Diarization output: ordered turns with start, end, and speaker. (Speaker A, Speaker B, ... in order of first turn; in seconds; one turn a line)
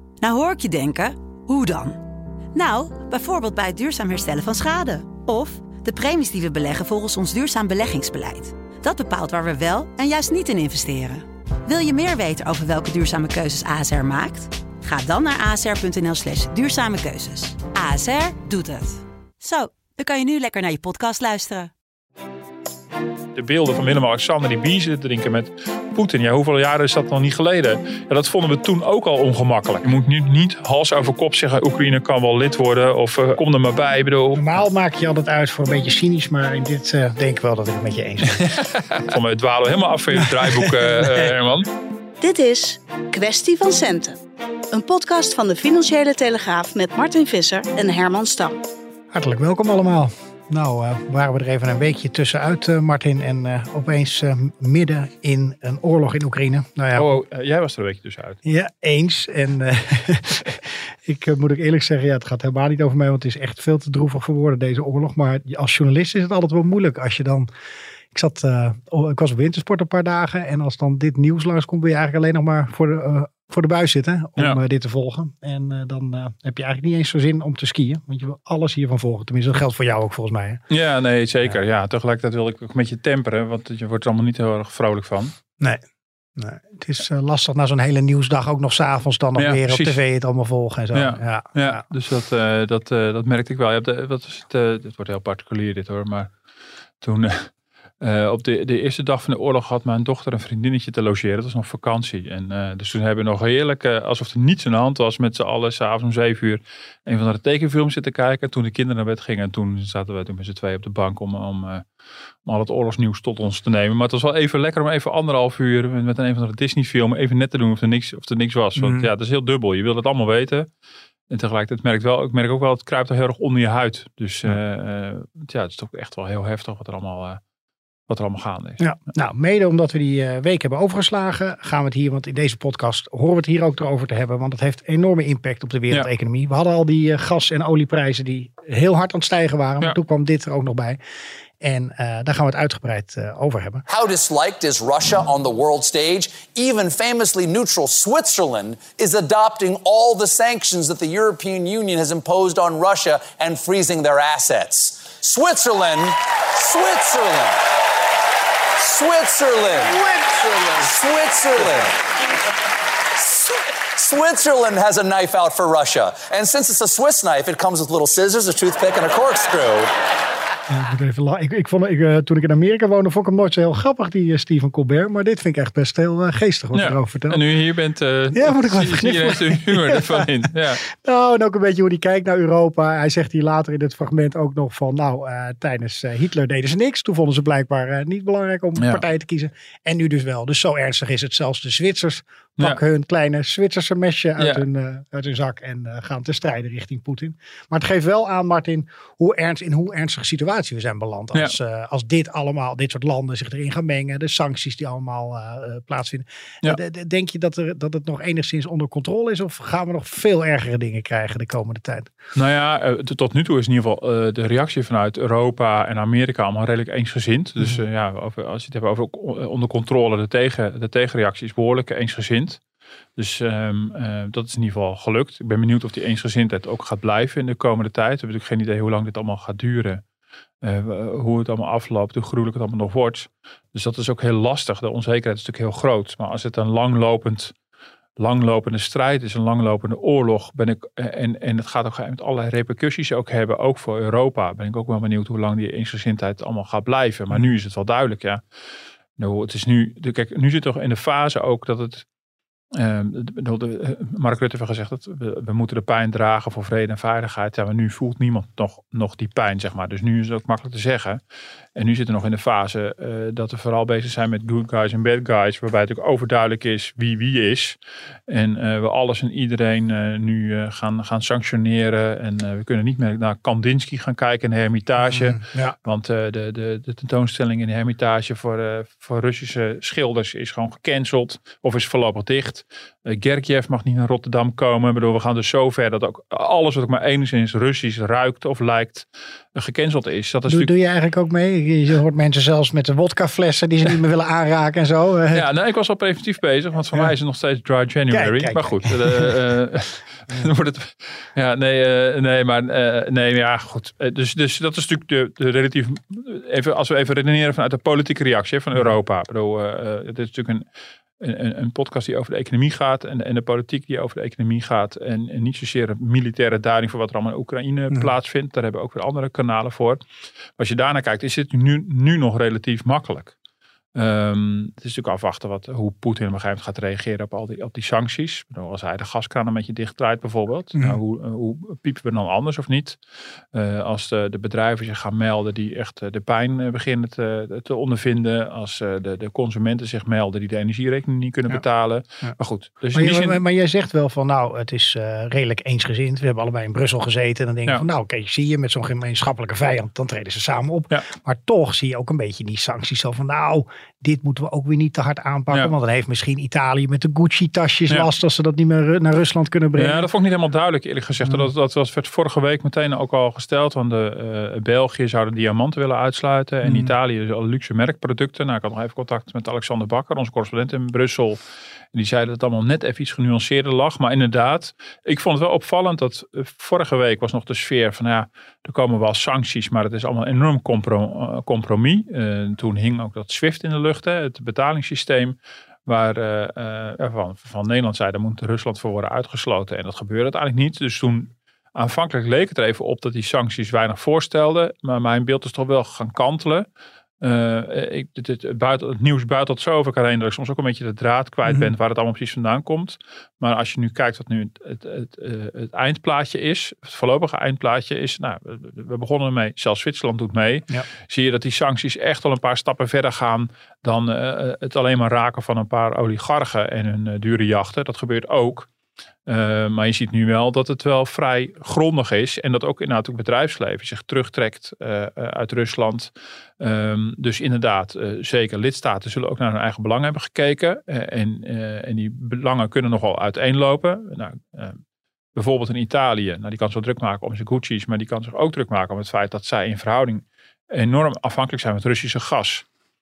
Speaker A: 0.2-2.0
Speaker A: 2.5-21.7
Speaker B: 23.3-34.6
Speaker C: 34.3-38.5
Speaker B: 38.4-41.7
Speaker C: 40.1-41.3
Speaker D: 42.2-44.2
Speaker D: 44.7-48.6
Speaker C: 49.1-57.1
Speaker B: 57.0-58.4
Speaker C: 58.5-67.5
Speaker C: 68.1-80.6
Speaker B: 80.7-85.3
Speaker C: 86.4-91.8
Speaker B: 89.4-90.0
Speaker B: 90.9-96.3
Speaker B: 97.0-97.5
Speaker B: 98.0-111.8
Speaker B: 112.5-120.7
Speaker C: 118.8-119.1
Speaker B: 121.3-127.4
Speaker B: 128.1-128.8
Speaker C: 128.8-141.0
Speaker C: 141.6-143.8
Speaker E: 143.9-157.7
Speaker E: 158.8-162.3
Speaker E: 163.1-169.9
Speaker C: 170.7-177.4
Speaker B: 176.7-180.8
Speaker C: 178.3-212.1
Speaker B: 188.8-189.0
Speaker B: 212.3-222.6
Speaker B: 223.2-230.0
Speaker B: 230.6-237.5
Speaker B: 238.2-248.4
Speaker B: 249.2-252.1
Speaker B: 252.7-261.2
Speaker B: 261.8-267.8
Speaker B: 268.3-290.7
Speaker C: 275.0-275.8
Speaker C: 290.5-295.5
Speaker B: 295.3-310.6
Speaker C: 298.1-299.4
Speaker B: 311.2-320.0
Speaker B: 320.6-323.4
Speaker B: 323.9-333.0
Speaker B: 333.5-343.4
Speaker C: 342.9-360.1
Speaker B: 359.8-371.4
Speaker C: 366.6-366.9
Speaker B: 371.9-396.7
Speaker B: 397.2-418.7
Speaker C: 401.5-401.7
Speaker B: 419.3-434.8
Speaker B: 435.4-442.6